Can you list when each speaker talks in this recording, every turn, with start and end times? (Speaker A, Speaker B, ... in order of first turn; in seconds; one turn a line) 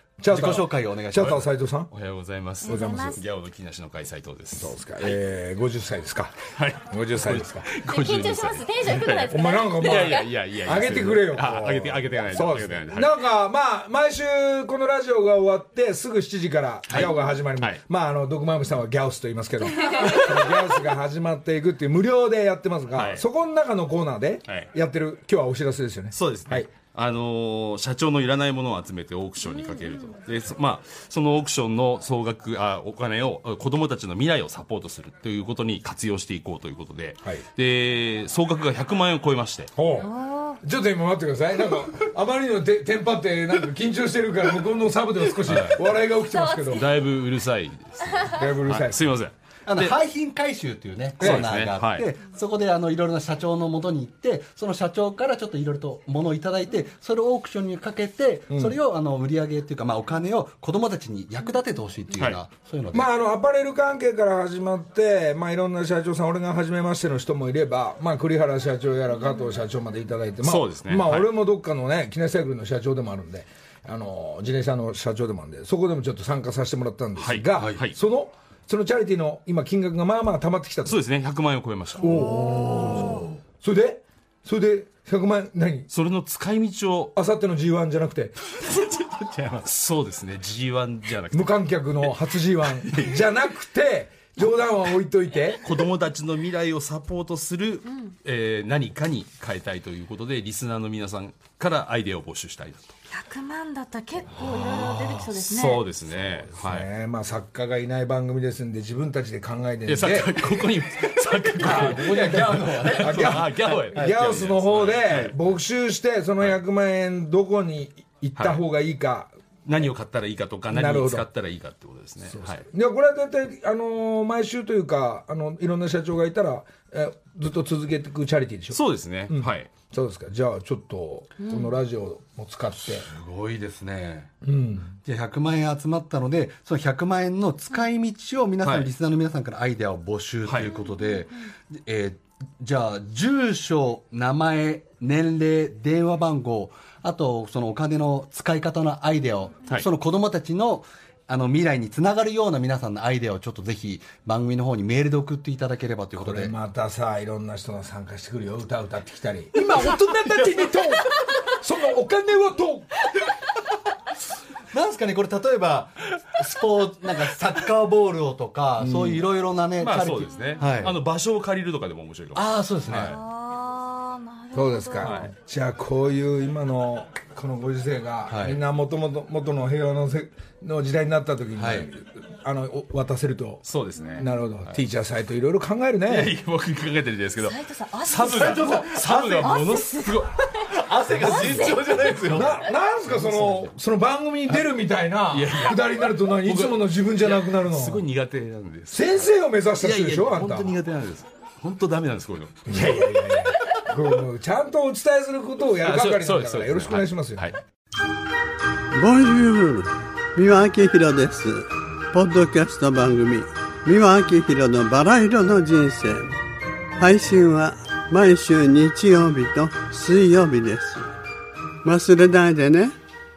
Speaker A: 0.2-1.9
Speaker B: 0.3-1.5
Speaker C: 1.9-5.2
Speaker D: 2.6-3.2
Speaker A: 2.6-3.2
Speaker A: 4.5-7.7
Speaker C: 6.5-13.2
Speaker D: 7.9-10.3
Speaker A: 9.2-26.7
Speaker C: 16.9-17.8
Speaker C: 22.9-23.2
Speaker C: 26.1-39.7
Speaker A: 39.8-46.9
Speaker D: 40.2-40.5
Speaker C: 45.4-45.8
Speaker D: 46.4-46.8
Speaker C: 46.7-50.0
Speaker A: 48.3-49.1
Speaker B: 49.6-63.1
Speaker A: 51.2-51.5
Speaker C: 51.2-52.0
Speaker A: 58.5-58.8
Speaker A: 62.9-81.0
Speaker C: 70.4-71.3
Speaker C: 77.2-78.0
Speaker C: 80.8-82.3
Speaker A: 82.0-85.9
Speaker C: 85.9-87.1
Speaker A: 87.1-88.3
Speaker C: 88.6-93.2
Speaker A: 91.3-95.6
Speaker C: 95.6-102.9
Speaker D: 103.1-105.9
Speaker C: 104.3-106.9
Speaker A: 106.4-110.4
Speaker C: 109.9-115.6
Speaker B: 111.6-113.7
Speaker A: 111.6-119.3
Speaker C: 118.3-118.6
Speaker C: 119.7-122.7
Speaker A: 120.7-121.2
Speaker A: 122.3-133.1
Speaker C: 128.7-129.7
Speaker B: 133.0-134.3
Speaker A: 134.4-135.0
Speaker B: 135.0-156.5
Speaker C: 138.6-138.9
Speaker C: 140.5-140.8
Speaker A: 156.2-162.9
Speaker B: 164.7-170.9
Speaker A: 168.8-169.2
Speaker C: 169.8-173.2
Speaker B: 172.3-173.2
Speaker D: 173.0-175.3
Speaker A: 174.5-183.6
Speaker C: 175.0-175.3
Speaker B: 178.3-178.6
Speaker B: 181.6-181.9
Speaker C: 183.6-184.8
Speaker A: 184.2-186.3
Speaker C: 186.1-193.7
Speaker D: 187.4-190.3
Speaker B: 188.2-189.6
Speaker B: 190.9-192.4
Speaker D: 191.3-191.8
Speaker A: 192.2-198.0
Speaker C: 195.3-199.3
Speaker A: 198.9-200.8
Speaker C: 199.8-203.7
Speaker A: 202.7-207.5
Speaker C: 205.8-207.6
Speaker E: 208.9-216.4
Speaker E: 217.0-221.1
Speaker E: 221.8-222.9